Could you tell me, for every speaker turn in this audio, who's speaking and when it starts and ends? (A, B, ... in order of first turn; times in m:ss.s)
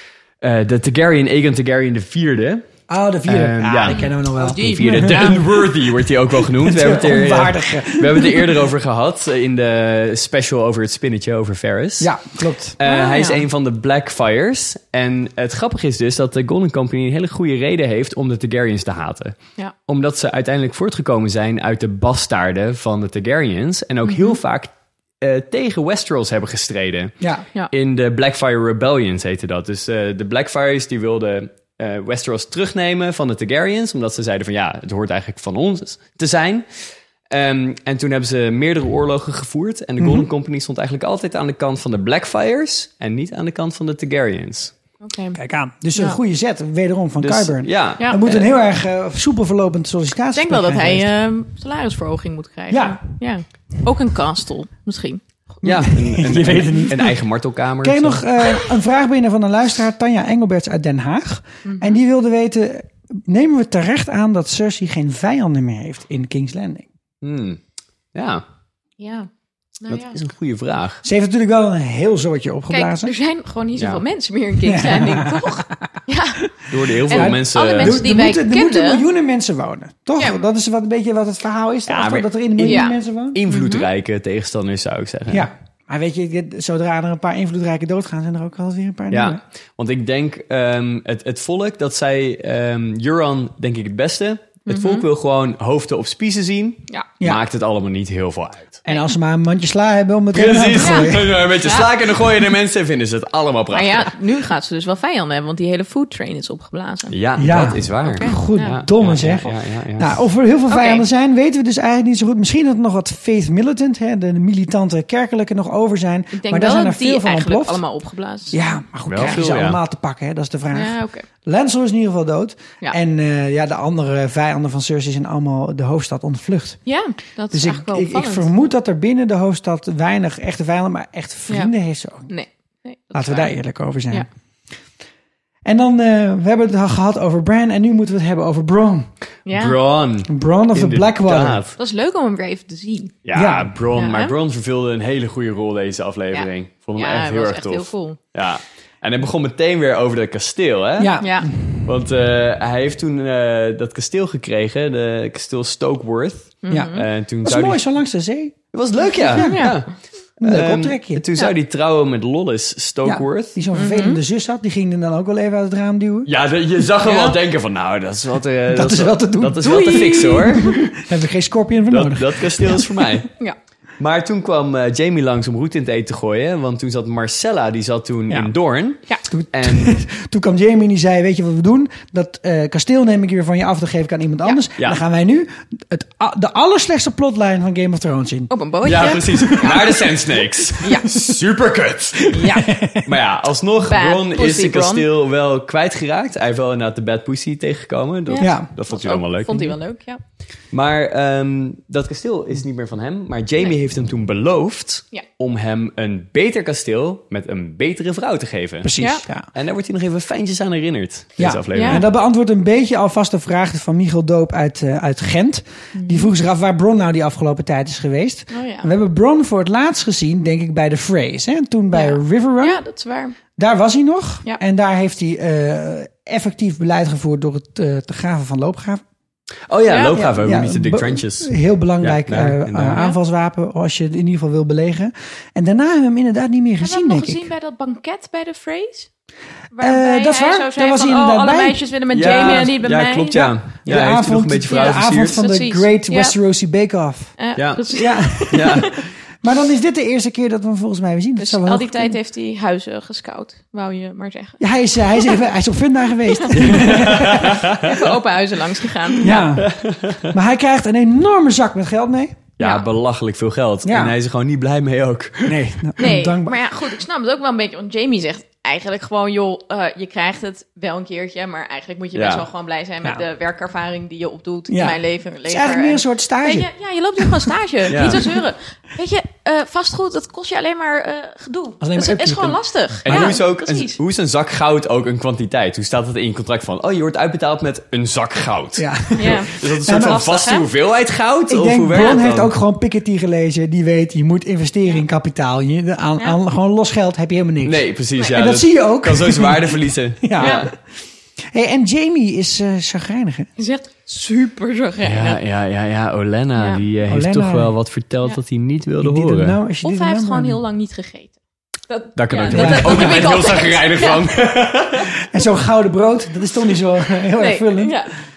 0:00.4-0:02.6 A
0:02.9-0:05.7 B
0:03.3-0:12.1 A
0:03.9-0:05.4 C
0:06.3-0:08.6 B
0:12.0-0:12.8 B
0:12.8-0:19.4 A
0:12.8-0:13.4 C
0:19.9-0:27.2 A
0:24.0-0:24.4 C
0:27.7-0:44.7 A
0:40.0-0:40.3 B
0:45.0-0:45.4 C
0:45.3-0:51.1 B
0:47.2-0:48.5 A
0:50.3-0:55.2 C
0:52.7-0:53.0 B
0:55.6-0:57.2 B
0:55.6-0:58.2 A
0:57.8-1:06.9 B
1:01.6-1:02.0 C
1:07.2-1:07.6 A
1:08.1-1:08.4 A
1:09.0-1:09.3 C
1:09.8-1:10.2 C
1:09.9-1:11.0 A
1:11.0-1:13.1 B
1:12.7-1:16.4 C
1:13.8-1:14.0 A
1:14.6-1:15.7 B
1:16.7-1:18.0 A
1:17.1-1:19.0 C
1:17.1-1:23.4 B
1:21.9-1:25.5 A
1:22.6-1:22.9 C
1:23.5-1:23.9 C
1:25.3-1:29.4 B
1:29.1-1:38.8 A
1:34.7-1:35.0 C
1:38.8-1:41.4 B
1:40.3-1:44.1 A
1:40.8-1:41.1 C
1:41.6-1:41.9 C
1:43.7-1:47.2 C
1:47.1-1:50.1 A
1:47.4-1:57.8 B
1:48.0-1:48.8 C
1:50.7-1:51.0 C
1:56.3-1:58.6 C
1:58.5-2:06.8 B
1:59.1-1:59.8 A
2:00.7-2:01.2 C
2:06.8-2:08.5 C
2:07.5-2:12.3 B
2:12.3-2:13.5 C
2:13.1-2:14.3 B
2:15.6-2:19.1 B
2:19.4-2:19.8 C
2:19.5-2:21.8 A
2:20.3-2:21.6 B
2:21.8-2:23.2 C
2:23.2-2:31.2 A
2:23.3-2:23.7 B
2:23.9-2:24.3 C
2:26.3-2:28.2 C
2:31.0-2:31.9 B
2:31.2-2:31.5 C
2:31.8-2:37.8 A
2:36.6-2:37.0 C
2:36.7-2:39.7 B
2:38.7-2:43.6 A
2:39.4-2:39.8 C
2:40.4-2:41.2 B
2:43.0-2:46.3 B
2:43.7-2:44.2 C
2:46.3-2:50.9 A
2:47.0-2:47.4 C
2:48.7-2:53.1 B
2:49.6-2:50.7 C
2:51.9-2:53.3 A
2:54.0-2:59.9 A
2:59.3-3:08.5 B
3:08.5-3:09.9 C
3:08.8-3:12.4 A
3:09.3-3:09.7 B
3:10.8-3:11.1 C
3:12.3-3:12.7 C
3:12.4-3:13.1 B
3:13.0-3:19.8 A
3:13.9-3:15.0 C
3:18.3-3:20.2 C
3:18.4-3:18.7 B
3:20.7-3:28.9 A
3:28.8-3:29.4 B
3:29.4-3:32.0 A
3:31.4-3:42.8 B
3:31.7-3:32.0 C
3:35.9-3:36.3 C
3:38.5-3:38.9 C
3:41.9-3:43.4 C
3:43.6-3:49.0 B
3:49.7-3:53.0 A
3:49.9-3:50.2 C
3:50.1-3:57.4 B
3:56.8-3:59.1 C
3:59.7-4:04.1 C
3:59.8-4:02.7 B
4:02.1-4:05.4 A
4:03.8-4:07.4 B
4:04.7-4:06.4 C
4:07.4-4:09.0 C
4:07.6-4:07.8 A
4:07.9-4:08.9 B
4:08.5-4:08.9 A
4:09.4-4:12.2 B
4:11.4-4:14.6 C
4:14.6-4:17.7 B
4:15.1-4:15.4 C
4:16.3-4:16.9 C
4:16.5-4:17.9 A
4:17.8-4:19.5 C
4:19.2-4:22.4 B
4:19.3-4:20.3 A
4:22.6-4:25.9 A
4:22.6-4:22.8 C
4:23.8-4:24.1 B
4:25.4-4:26.6 B
4:26.0-4:44.0 C
4:32.1-4:32.4 A
4:34.7-4:36.7 B
4:37.2-4:38.2 B
4:37.9-4:38.2 A
4:41.8-4:43.4 B
4:43.0-4:52.5 A
4:48.8-4:50.2 B
4:49.2-4:50.6 C
4:51.5-5:00.7 B
4:57.6-5:00.7 A
5:00.4-5:00.7 C
5:01.5-5:03.5 B
5:03.6-5:05.4 C
5:05.0-5:09.6 A
5:06.6-5:06.8 C
5:07.1-5:07.7 B
5:09.0-5:10.6 B
5:09.8-5:11.4 C
5:11.9-5:14.3 C
5:12.2-5:15.1 A
5:12.5-5:13.4 B
5:15.3-5:18.0 B
5:17.4-5:18.1 C